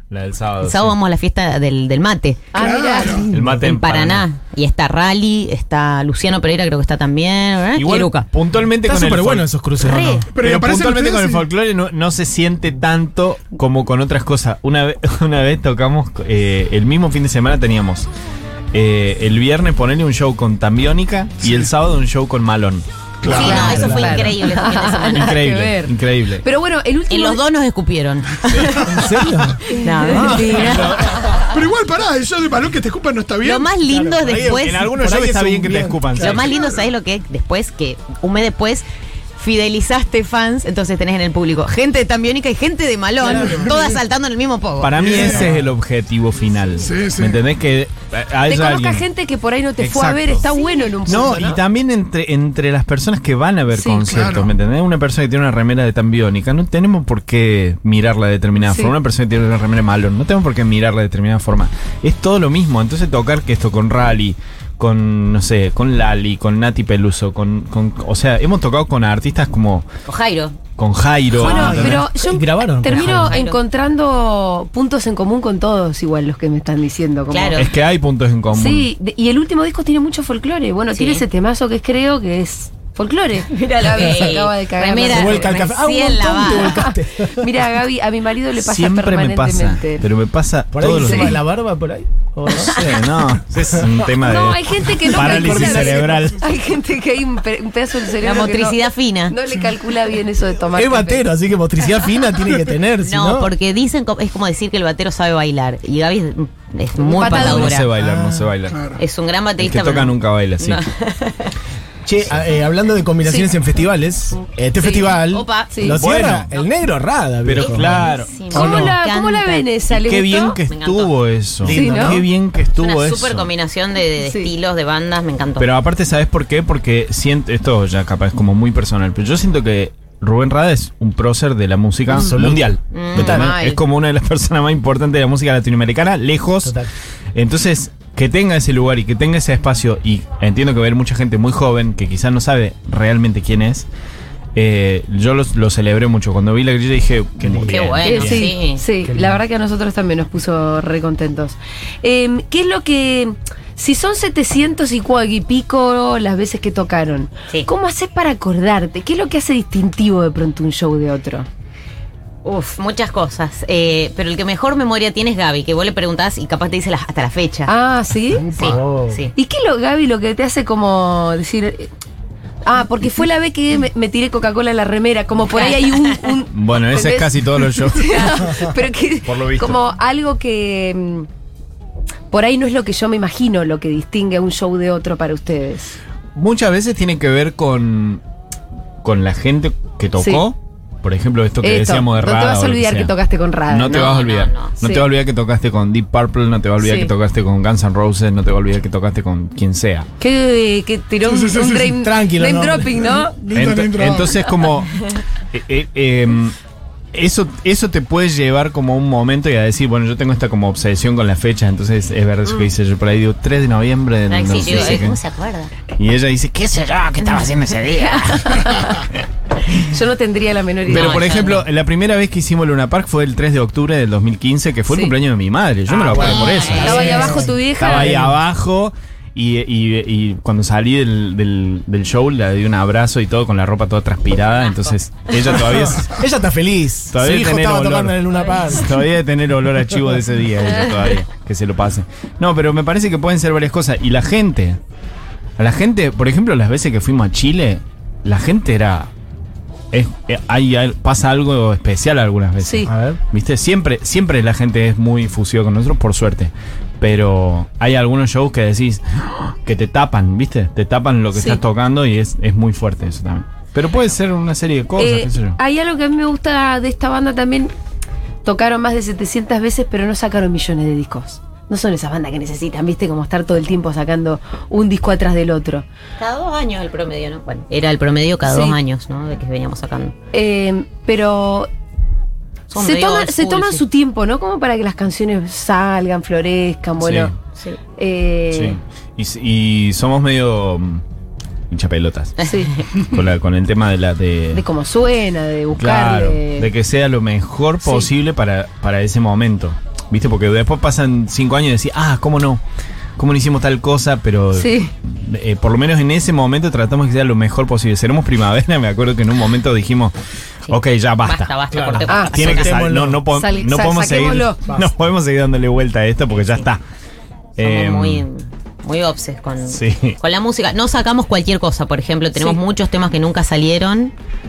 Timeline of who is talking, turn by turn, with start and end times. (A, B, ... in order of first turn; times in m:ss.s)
0:00.1-0:01.0 A
0:00.6-0:02.5 B
0:02.5-0:03.3 C
0:02.6-0:03.3 D
0:03.3-0:04.2 A
0:03.3-0:03.6 E
0:03.6-0:08.3 B
0:07.8-0:09.5 A
0:08.8-0:10.9 E
0:09.8-0:10.3 B
0:10.3-0:11.5 D
0:10.4-0:18.1 A
0:18.7-0:24.2 A
0:23.2-0:23.9 D
0:23.3-0:25.4 B
0:23.4-0:27.4 C
0:23.4-0:24.3 E
0:25.1-0:26.4 A
0:27.1-0:29.1 B
0:28.7-0:30.8 E
0:29.6-0:31.4 B
0:29.8-0:30.8 C
0:30.4-0:31.2 A
0:31.3-0:33.7 D
0:33.4-0:34.9 B
0:33.9-0:36.4 E
0:34.4-0:36.4 A
0:36.2-0:38.9 B
0:36.4-0:36.8 D
0:39.4-0:45.2 B
0:43.2-0:43.8 E
0:43.2-0:43.9 D
0:44.8-0:49.0 A
0:45.0-0:45.5 D
0:45.1-0:45.7 E
0:46.8-0:47.4 D
0:48.5-0:51.6 C
0:49.8-0:50.5 A
0:51.0-1:09.9 A
0:51.0-0:51.6 E
0:53.7-0:54.0 C
0:54.0-0:54.5 D
0:58.6-0:59.0 C
1:10.1-1:10.6 B
1:10.8-1:12.0 A
1:11.3-1:13.3 E
1:11.4-1:17.7 C
1:12.9-1:13.6 B
1:17.3-1:17.7 B
1:17.6-1:18.9 A
1:18.5-1:25.6 C
1:21.0-1:21.2 B
1:23.5-1:26.9 B
1:25.1-1:27.5 E
1:26.8-1:30.1 C
1:28.6-1:31.4 A
1:30.7-1:33.0 E
1:30.9-1:31.4 C
1:32.5-1:36.5 A
1:34.2-1:41.2 C
1:35.1-1:36.2 E
1:38.2-1:39.4 B
1:40.7-1:43.5 E
1:43.0-1:47.9 B
1:47.0-1:47.8 C
1:47.2-1:48.8 A
1:48.0-1:48.5 E
1:48.7-1:49.0 D
1:49.0-1:51.5 B
1:49.6-1:50.8 A
1:52.0-1:58.9 E
1:54.8-1:55.1 C
1:55.0-1:55.8 B
1:55.7-1:56.0 C
1:55.9-1:56.5 A
1:57.4-1:58.9 A
1:57.6-1:59.7 B
1:58.5-2:00.6 C
1:59.9-2:03.5 A
2:00.7-2:01.2 B
2:01.6-2:02.3 E
2:01.7-2:02.2 C
2:02.8-2:05.7 B
2:04.2-2:04.5 C
2:05.6-2:16.8 A
2:12.1-2:12.8 E
2:12.9-2:13.8 B
2:13.2-2:13.5 C
2:16.6-2:16.9 E
2:17.3-2:23.9 A
2:24.6-2:28.4 A
2:27.4-2:28.5 E
2:27.7-2:28.8 B
2:28.0-2:41.5 C
2:29.0-2:29.4 E
2:42.4-2:47.7 B
2:47.7-2:48.5 C
2:48.5-2:49.2 E
2:48.6-2:49.3 B
2:49.4-2:51.9 C
2:52.6-3:01.3 C
2:55.5-2:56.2 B
2:56.5-2:58.6 A
2:59.2-2:59.8 A
3:02.3-3:06.0 C
3:06.3-3:08.2 A
3:09.0-3:13.1 A
3:10.2-3:10.4 C
3:11.6-3:14.1 C
3:13.7-3:20.1 A
3:13.9-3:14.8 B
3:14.8-3:15.1 C
3:16.8-3:17.1 C
3:20.2-3:23.3 C
3:21.2-3:22.0 D
3:21.9-3:23.3 E
3:23.4-3:24.4 D
3:23.5-3:26.6 A
3:27.1-3:35.2 A
3:34.3-3:35.7 B
3:34.6-3:35.0 C
3:35.9-3:38.5 A
3:37.2-3:38.9 B
3:38.0-3:38.9 C
3:39.8-3:41.3 C
3:40.9-3:41.7 B
3:40.9-3:56.2 A
3:44.9-3:45.1 C
3:45.9-3:48.4 E
3:46.1-3:47.2 B
3:46.8-3:48.2 C
3:55.6-3:59.0 E
3:57.1-4:04.8 A
4:05.6-4:09.1 A
4:09.9-4:25.6 A
4:12.6-4:12.9 C
4:12.9-4:13.2 E
4:25.0-4:27.7 C
4:28.4-4:35.8 C
4:36.2-4:40.2 B
4:38.5-4:38.8 C
4:40.3-4:41.7 C
4:42.7-4:43.8 B
4:42.8-4:47.3 C
4:47.0-4:47.3 A
4:48.0-4:48.8 C
4:48.5-4:51.0 A
4:51.7-4:52.4 A
4:52.4-4:52.9 B
4:52.4-4:52.7 C
4:53.0-4:54.6 A
4:54.5-4:56.7 C
4:55.8-5:02.6 A
4:57.8-4:58.1 C
5:03.2-5:10.2 A
5:04.5-5:04.9 C
5:10.7-5:11.5 A
5:10.7-5:12.9 B
5:11.7-5:13.2 E
5:12.1-5:12.4 C
5:12.2-5:16.8 A
5:13.3-5:14.6 C
5:17.6-5:18.2 A
5:17.6-5:24.1 B
5:19.7-5:20.2 A